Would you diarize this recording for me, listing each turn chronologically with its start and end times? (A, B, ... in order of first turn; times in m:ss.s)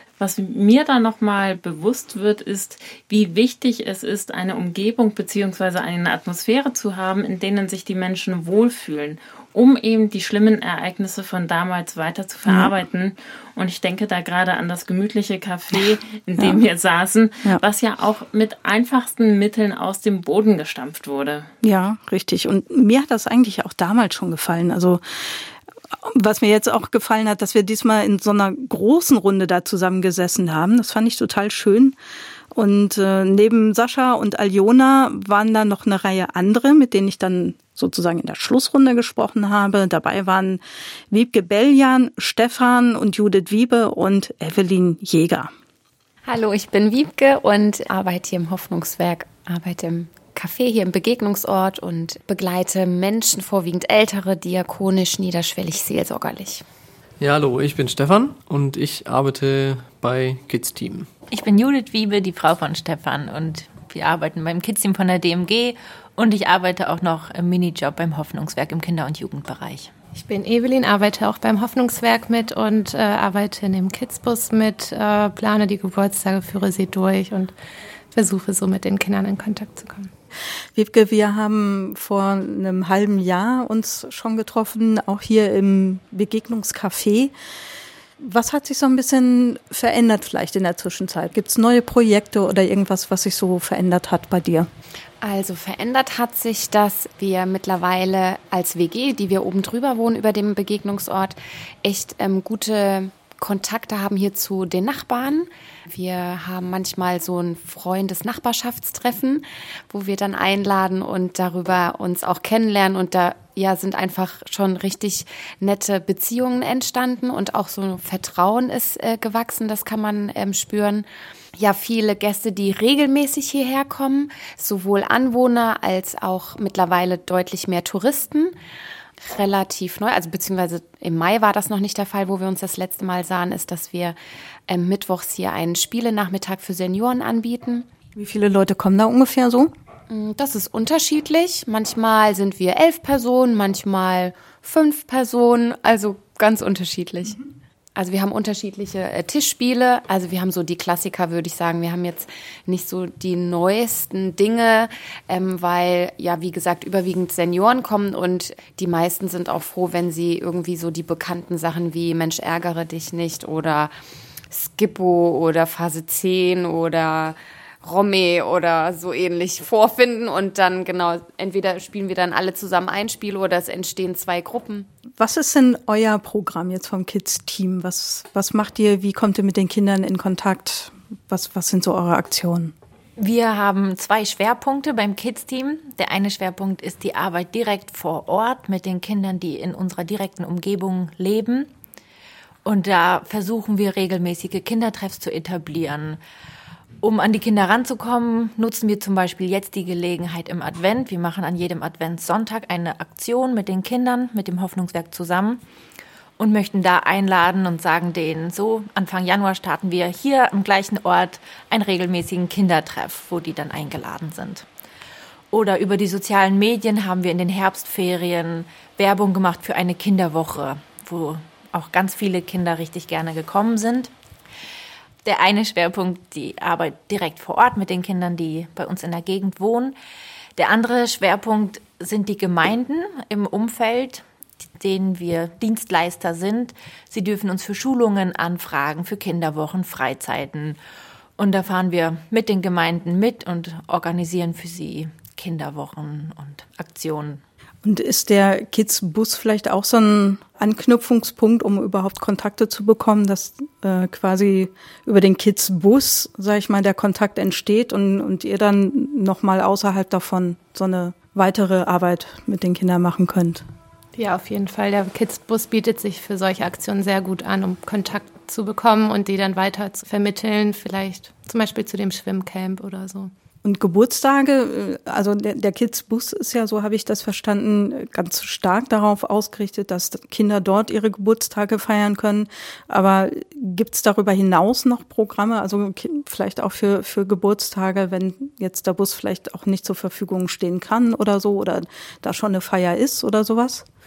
0:00.2-0:21.5 A
0:21.6-0:25.5 B
0:26.0-0:32.0 B
0:32.5-0:45.5 B
0:46.2-0:56.6 C
0:57.2-1:01.1 D
1:01.3-1:09.9 E
1:10.1-1:17.5 F
1:18.1-1:20.1 F
1:20.7-1:27.3 B
1:28.2-1:34.7 B
1:35.2-2:08.5 C
2:09.2-2:14.2 C
2:14.7-2:17.9 C
2:18.2-2:19.7 B
2:20.1-2:27.4 C
2:28.0-2:43.9 C
2:44.5-2:54.9 C
2:55.2-3:02.7 B
3:03.2-3:11.7 E
3:12.6-3:16.2 E
3:17.0-3:25.6 E
3:26.4-3:34.6 E
3:35.5-3:44.1 E
3:45.2-3:49.9 E
3:50.6-3:54.2 E
3:54.8-4:00.8 E
4:01.4-4:07.4 E
4:07.8-4:23.6 B
4:24.1-4:33.3 F
4:33.6-4:53.8 B